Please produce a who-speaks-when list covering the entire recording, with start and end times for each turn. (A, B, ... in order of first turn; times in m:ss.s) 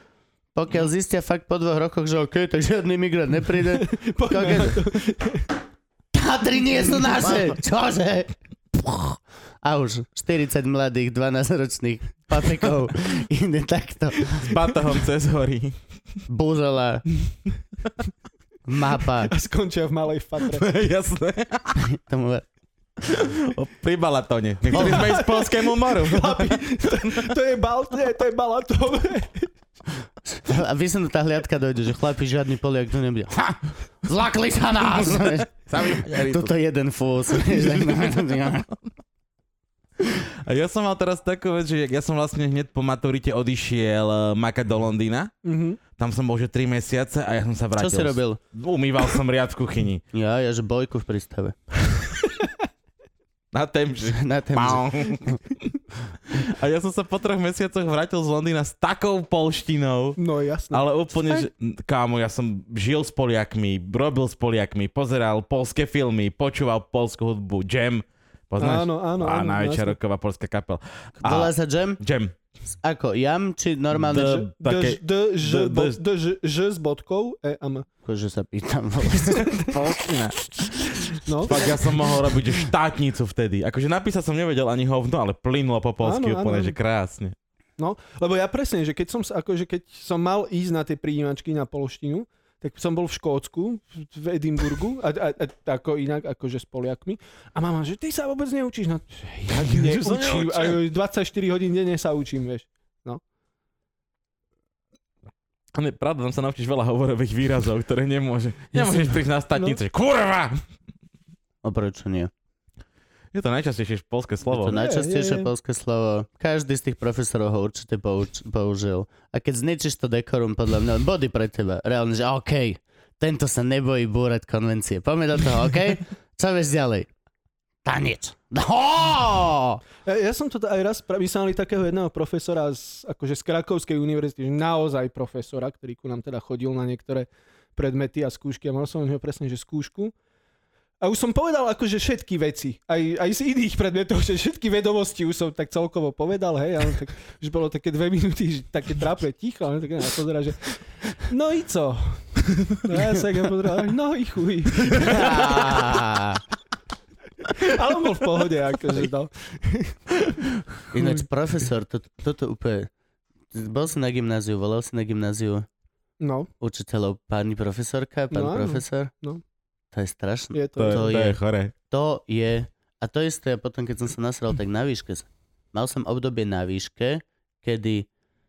0:00.5-0:04.9 A
0:03.7-0:05.5 B
0:06.1-0:14.5 A
0:14.3-0:15.8 C
0:16.3-0:17.1 A
0:18.6-0:19.3 A
0:19.3-0:20.6 B
0:20.5-0:21.8 C
0:21.8-0:22.4 A
0:23.0-0:27.3 C
0:24.7-0:29.5 B
0:24.7-0:25.0 A
0:30.2-0:38.7 A
0:34.8-0:36.5 C
0:37.4-0:38.4 C
0:40.4-0:45.3 C
0:45.4-0:45.8 B
0:45.9-0:50.0 C
0:47.8-0:48.4 A
0:50.1-0:51.5 A
0:53.5-0:55.6 C
0:54.1-0:55.4 A
0:56.3-1:00.2 C
1:00.2-1:00.8 B
1:00.7-1:12.3 C
1:08.6-1:10.0 B
1:11.2-1:12.0 A
1:12.8-1:14.4 A
1:13.9-1:16.0 C
1:14.1-1:17.9 B
1:18.0-1:19.8 A
1:19.4-1:20.6 C
1:21.2-1:21.6 B
1:21.4-1:27.3 C
1:26.0-1:26.8 B
1:27.8-1:43.2 B
1:39.5-1:40.8 C
1:45.7-1:50.6 C
1:48.7-1:49.8 B
1:51.6-1:52.3 A
1:53.3-1:54.8 C
1:54.5-2:07.1 A
1:54.6-1:55.5 B
2:07.8-2:09.8 A
2:10.0-2:20.1 B
2:21.0-2:35.9 B
2:35.0-2:36.4 A
2:37.5-2:40.5 B
2:40.9-2:42.9 A
2:43.5-2:45.6 A
2:46.2-2:46.5 B
2:46.6-2:49.1 A
2:48.3-2:49.4 B
2:49.9-2:58.1 A
2:50.5-2:51.1 B
2:50.8-2:51.7 C